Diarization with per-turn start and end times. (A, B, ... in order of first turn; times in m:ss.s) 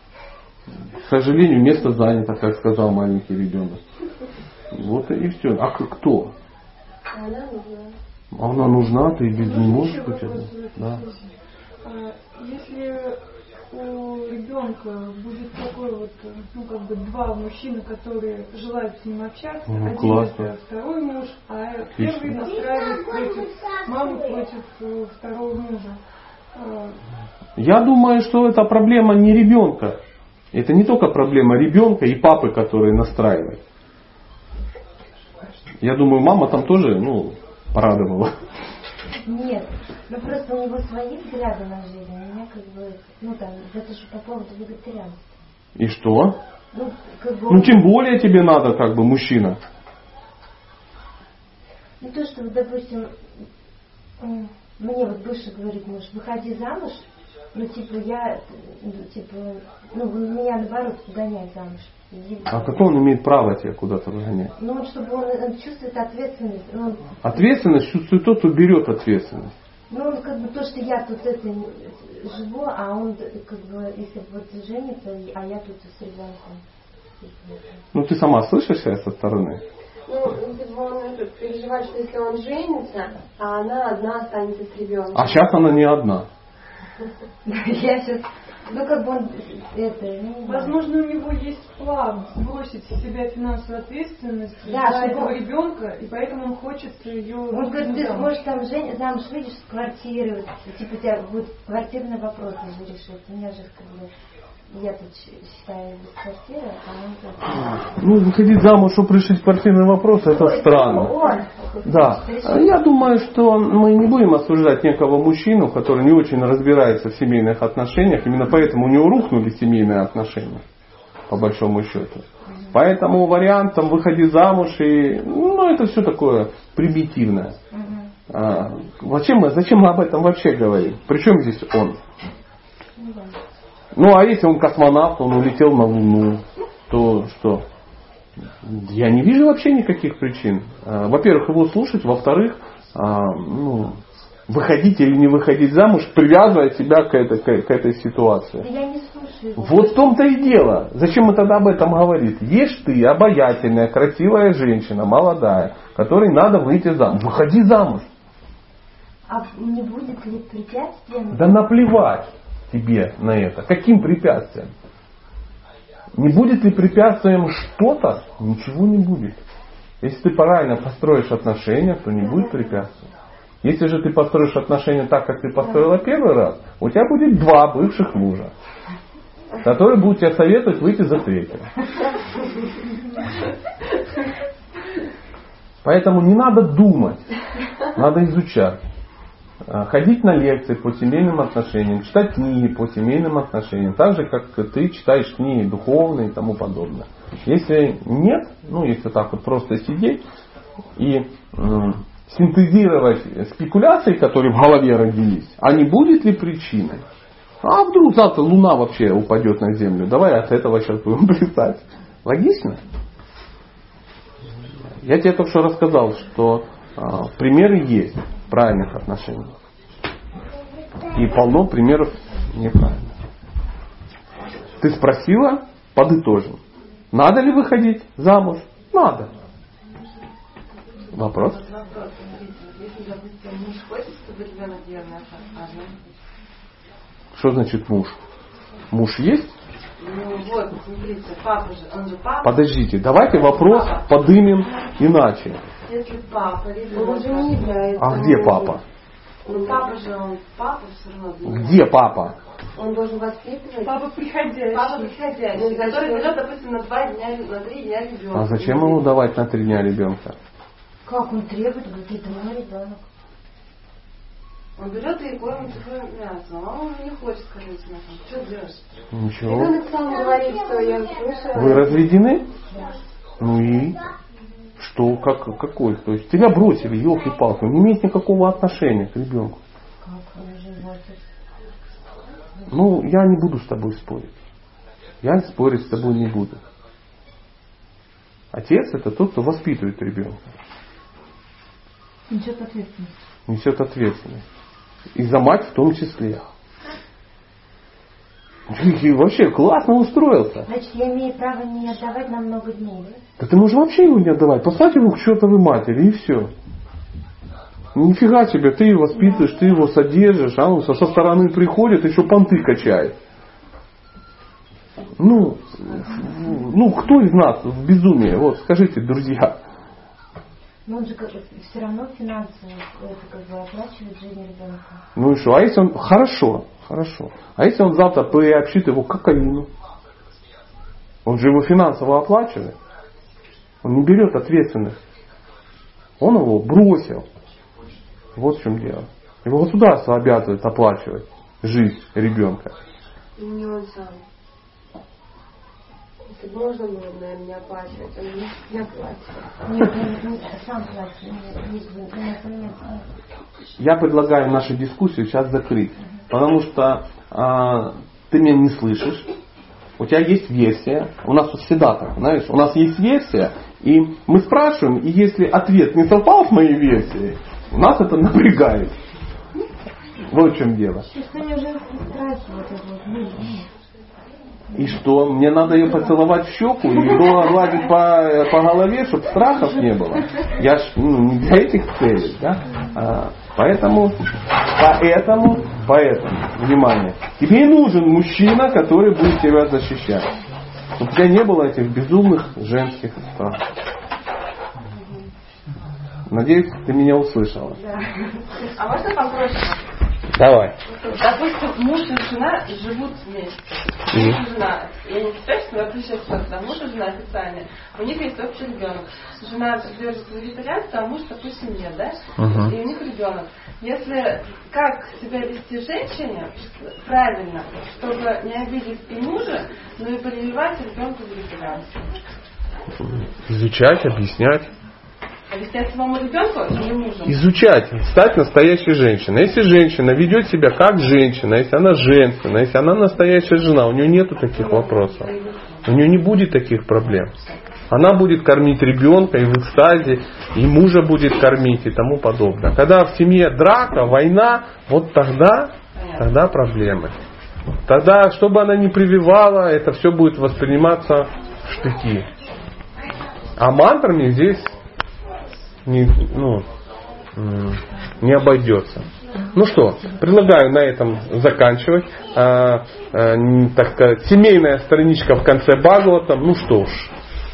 0:00.9-0:03.8 A
0:04.7-0:06.3 A
0:07.1-0:08.0 B
0:08.3-0:11.0 A
0:09.3-0:13.2 C
0:13.7-0:26.0 C
0:19.7-0:20.5 A
0:22.0-0:22.4 A
0:26.5-0:27.0 C
0:27.6-0:30.0 A
0:30.5-0:33.6 A
0:35.8-0:38.3 A
0:39.2-0:45.3 D
0:45.8-0:46.4 A
0:46.7-0:47.8 D
0:47.5-0:49.6 A
0:52.0-0:53.1 D
0:54.2-1:02.8 D
1:02.5-1:04.5 A
1:04.6-1:07.5 D
1:07.2-1:09.5 A
1:09.9-1:16.6 D
1:17.2-1:17.8 D
1:17.9-1:19.6 A
1:20.0-1:25.4 B
1:25.1-1:26.3 A
1:27.4-1:30.8 D
1:30.4-1:38.3 C
1:34.6-1:35.4 D
1:37.5-1:44.1 D
1:44.7-1:47.8 D
1:47.6-1:51.1 A
1:50.2-1:52.8 D
1:51.8-2:00.6 A
2:01.3-2:07.6 A
2:07.7-2:08.1 D
2:08.3-2:12.0 A
2:13.0-2:13.4 D
2:13.9-2:17.6 A
2:18.6-2:28.6 A
2:28.6-2:30.1 D
2:29.6-2:38.1 A
2:39.3-2:41.7 D
2:41.3-2:44.7 A
2:46.1-2:49.4 A
2:50.0-2:53.0 A
2:52.2-2:52.8 D
2:53.6-2:58.5 A
2:59.6-3:01.7 A
3:05.8-3:07.2 A
3:07.9-3:08.8 A
3:09.6-3:20.2 A
3:21.0-3:27.0 A
3:27.6-3:32.8 A
3:35.0-3:39.5 A
3:41.1-3:43.1 A
3:44.8-3:46.6 A
3:47.1-3:49.3 A
3:51.1-3:51.6 A
3:51.2-3:56.1 E
3:57.3-3:58.2 A
3:58.9-3:59.5 A
4:00.0-4:04.1 E
4:02.4-4:05.6 A
4:05.8-4:07.8 E
4:06.9-4:08.8 B
4:08.0-4:08.8 A
4:09.4-4:09.8 B
4:09.5-4:11.9 E
4:11.4-4:12.4 A
4:12.8-4:14.0 B
4:13.8-4:15.1 C
4:14.7-4:19.1 E
4:15.5-4:16.3 B
4:18.3-4:20.4 A
4:21.0-4:23.0 D
4:24.8-4:28.8 E
4:29.1-4:29.8 A
4:29.5-4:32.1 B
4:31.5-4:32.5 A
4:32.7-4:33.0 D
4:33.4-4:34.0 A
4:34.8-4:39.6 A
4:40.0-4:41.2 D
4:42.7-4:44.3 A
4:45.2-4:46.6 A
4:48.5-4:50.5 A
4:52.3-4:53.1 D
4:53.5-4:54.4 A
4:55.1-4:56.5 A
4:58.7-5:00.7 A
5:00.7-5:03.2 D
5:03.4-5:06.5 A
5:07.9-5:13.2 A
5:15.2-5:19.6 A
5:20.8-5:25.0 D
5:25.1-5:29.7 A
5:31.2-5:32.8 A
5:33.8-5:35.0 A
5:36.2-5:37.2 A
5:38.3-5:42.7 A
5:43.4-5:44.2 B
5:46.2-5:49.5 B
5:49.6-5:53.0 D
5:53.8-5:59.3 A
6:00.0-6:08.9 A
6:10.3-6:11.1 A
6:11.1-6:13.7 D
6:14.7-6:30.3 A
6:15.8-6:16.1 D
6:31.0-6:33.6 A
6:36.3-6:37.8 A
6:37.8-6:38.7 D
6:38.7-6:39.9 E
6:40.3-6:40.7 A
6:41.0-7:02.2 E
6:44.1-6:44.4 A
6:52.4-6:52.7 A
7:03.0-7:04.7 A
7:05.5-7:07.4 E
7:07.2-7:15.3 A
7:14.5-7:15.8 E
7:15.8-7:17.3 A
7:17.9-7:27.1 A
7:25.9-7:26.4 E
7:27.8-7:32.3 A
7:33.6-7:34.7 A
7:35.8-7:36.7 A
7:37.4-7:47.1 A